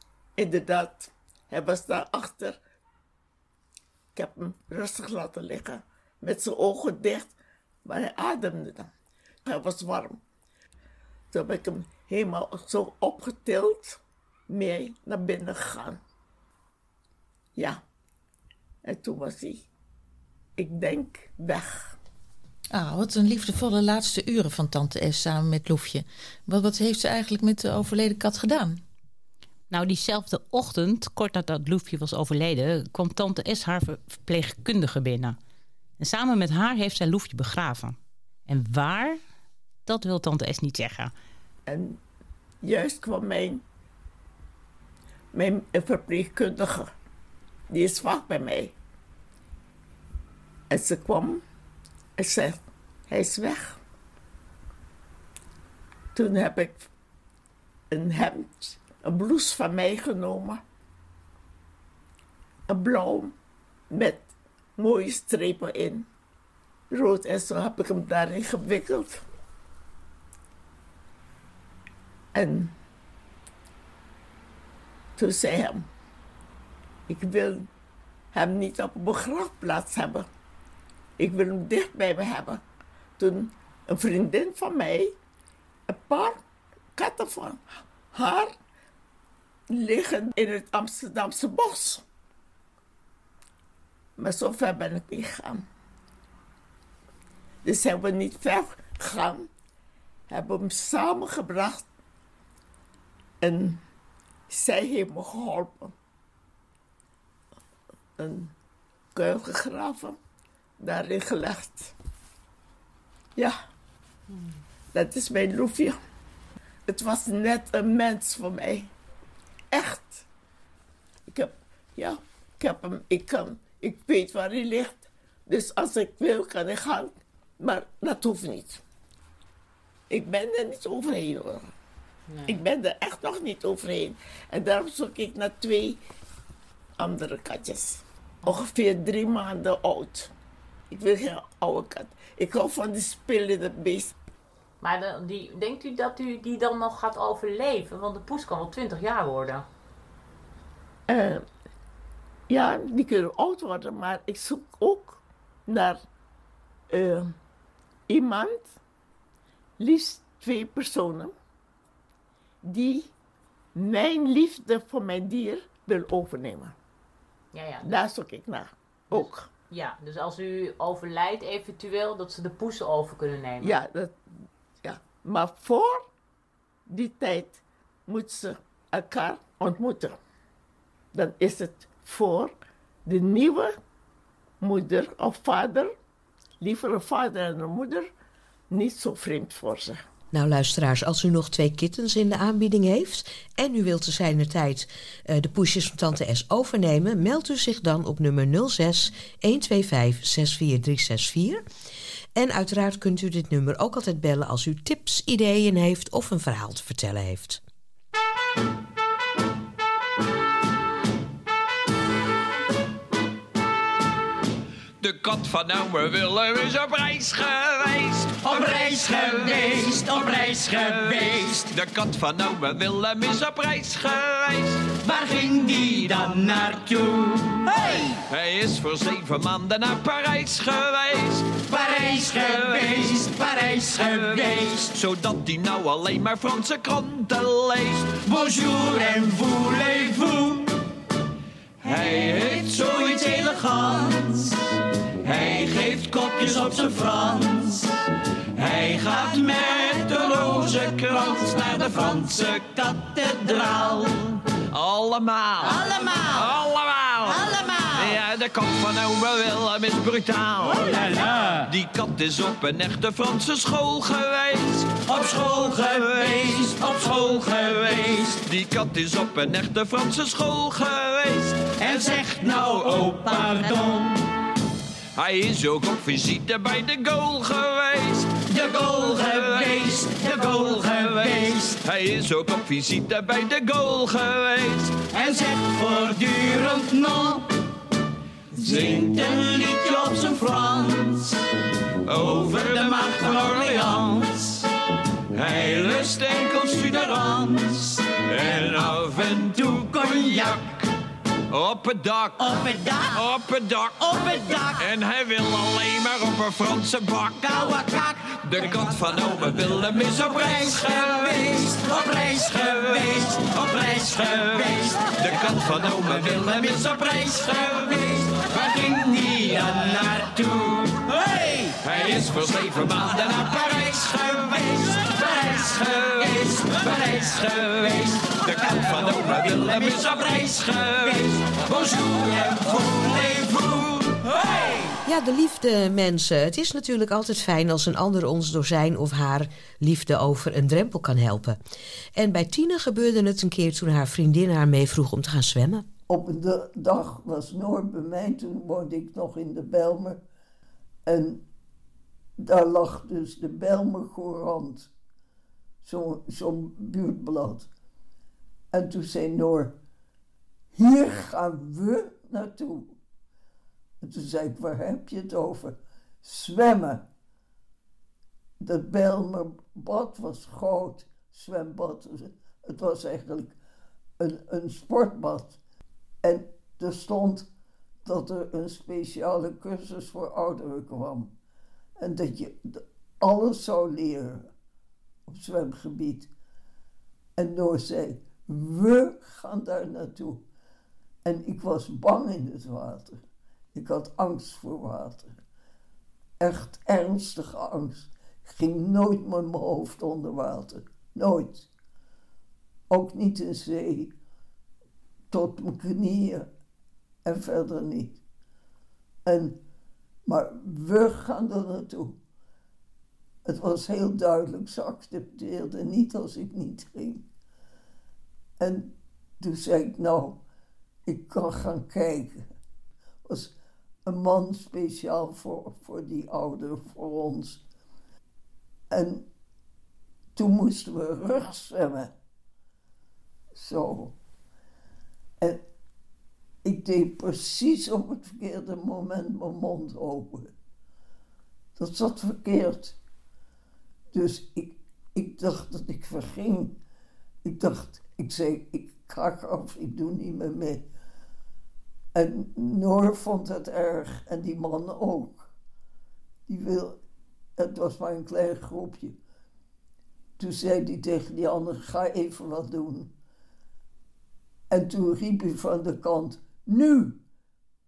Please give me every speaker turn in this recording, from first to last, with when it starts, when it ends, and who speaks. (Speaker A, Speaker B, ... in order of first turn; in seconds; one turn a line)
Speaker A: 0.4-2.6
Speaker A: 4.1-7.3
Speaker A: 7.8-8.9
Speaker A: 9.4-10.2
Speaker A: 11.3-16.0
Speaker A: 17.6-17.8
Speaker A: 18.8-19.6
Speaker A: 20.6-22.0
Speaker B: 22.7-28.8
Speaker C: 29.7-35.4
Speaker C: 36.0-38.0
Speaker C: 38.5-39.2
Speaker C: 39.9-41.1
Speaker A: 41.6-42.0
Speaker A: 42.6-43.6
Speaker A: 45.3-46.9
Speaker A: 47.7-48.8
Speaker A: 50.7-51.4
Speaker A: 52.2-53.8
Speaker A: 56.1-56.9
Speaker A: 57.9-60.6
Speaker A: 62.7-63.3
Speaker A: 63.9-66.1
Speaker A: 66.9-69.2
Speaker A: 72.3-72.7
Speaker A: 75.2-75.9
Speaker A: 77.1-77.7
Speaker A: 78.3-80.3
Speaker A: 81.2-82.6
Speaker A: 83.2-85.1
Speaker A: 85.9-86.4
Speaker A: 87.0-88.5
Speaker A: 89.7-92.0
Speaker A: 94.2-95.6
Speaker A: 97.6-99.5
Speaker A: 100.3-101.8
Speaker A: 103.4-103.8
Speaker A: 104.5-105.9
Speaker A: 108.2-108.5
Speaker A: 109.1-110.2
Speaker A: 110.8-111.9
Speaker A: 114.9-116.0
Speaker A: 116.9-118.9
Speaker A: 119.7-120.2
Speaker A: 121.3-128.8
Speaker A: 130.1-131.7
Speaker A: 132.4-136.0
Speaker A: 137.0-140.3
Speaker A: 140.9-144.2
Speaker C: 144.8-149.7
Speaker A: 151.1-151.4
Speaker A: 152.5-156.0
Speaker A: 156.9-157.3
Speaker A: 158.1-158.7
Speaker A: 159.8-161.3
Speaker A: 162.6-163.1
Speaker A: 163.7-166.8
Speaker C: 167.5-167.9
Speaker A: 167.8-169.5
Speaker C: 169.1-173.8
Speaker A: 173.6-174.2
Speaker A: 174.8-176.0
Speaker A: 176.9-180.1
Speaker A: 181.1-182.5
Speaker A: 183.1-183.7
Speaker A: 184.6-185.9
Speaker A: 186.6-188.1
Speaker A: 188.7-190.0
Speaker D: 190.3-201.6
Speaker D: 202.3-207.6
Speaker E: 215.0-218.5
Speaker F: 218.4-221.7
Speaker E: 220.8-225.0
Speaker F: 225.0-228.2
Speaker E: 228.3-231.6
Speaker F: 231.6-234.9
Speaker E: 234.9-238.2
Speaker F: 238.2-240.7
Speaker E: 241.8-242.6
Speaker F: 242.1-244.5
Speaker F: 245.2-247.9
Speaker F: 248.6-254.1
Speaker E: 250.9-252.6
Speaker E: 254.7-261.0
Speaker F: 255.6-256.4
Speaker F: 257.3-258.0
Speaker F: 260.7-261.7
Speaker E: 261.7-265.3
Speaker F: 265.0-268.4
Speaker E: 265.9-266.4
Speaker E: 267.8-271.7
Speaker F: 271.8-274.2
Speaker E: 275.1-278.5
Speaker F: 278.5-281.8
Speaker E: 279.2-279.7
Speaker E: 281.0-285.0
Speaker F: 285.1-287.5
Speaker F: 288.6-291.4
Speaker E: 288.6-289.0
Speaker E: 292.1-293.9
Speaker F: 292.2-294.6
Speaker E: 295.3-297.1
Speaker F: 296.9-300.8
Speaker E: 298.1-300.1
Speaker E: 301.5-307.5
Speaker F: 302.4-303.1
Speaker F: 304.1-304.7
Speaker F: 307.4-308.9
Speaker E: 308.3-311.3
Speaker F: 310.2-321.6
Speaker E: 314.4-316.8
Speaker E: 321.8-323.7
Speaker F: 323.3-334.7
Speaker E: 328.4-331.3
Speaker D: 335.0-341.6
Speaker D: 342.1-345.9
Speaker G: 346.1-350.2
Speaker G: 351.1-351.4
Speaker G: 352.4-354.9
Speaker G: 355.8-357.7
Speaker G: 358.7-359.8
Speaker G: 360.7-362.9
Speaker G: 364.0-367.0
Speaker G: 368.6-373.5
Speaker G: 374.2-375.6
Speaker G: 376.2-377.5
Speaker G: 378.0-381.3
Speaker G: 382.0-384.5
Speaker G: 385.3-386.3
Speaker G: 387.4-390.4
Speaker G: 391.2-393.2
Speaker G: 393.7-395.3
Speaker G: 396.4-401.7
Speaker G: 402.9-404.1
Speaker G: 405.3-406.5
Speaker G: 407.2-408.2
Speaker G: 409.2-409.6
Speaker G: 410.2-412.2
Speaker G: 413.4-417.2
Speaker G: 418.6-420.4
Speaker G: 421.1-422.5
Speaker G: 423.2-423.5
Speaker G: 424.1-427.6
Speaker G: 428.9-429.2
Speaker G: 430.4-432.1
Speaker G: 433.5-434.1
Speaker G: 436.6-440.5
Speaker G: 441.8-443.0
Speaker G: 444.1-446.8
Speaker G: 447.4-450.9
Speaker G: 452.1-455.5
Speaker G: 456.5-457.0
Speaker G: 457.6-459.2
Speaker G: 460.4-463.1
Speaker G: 464.7-467.2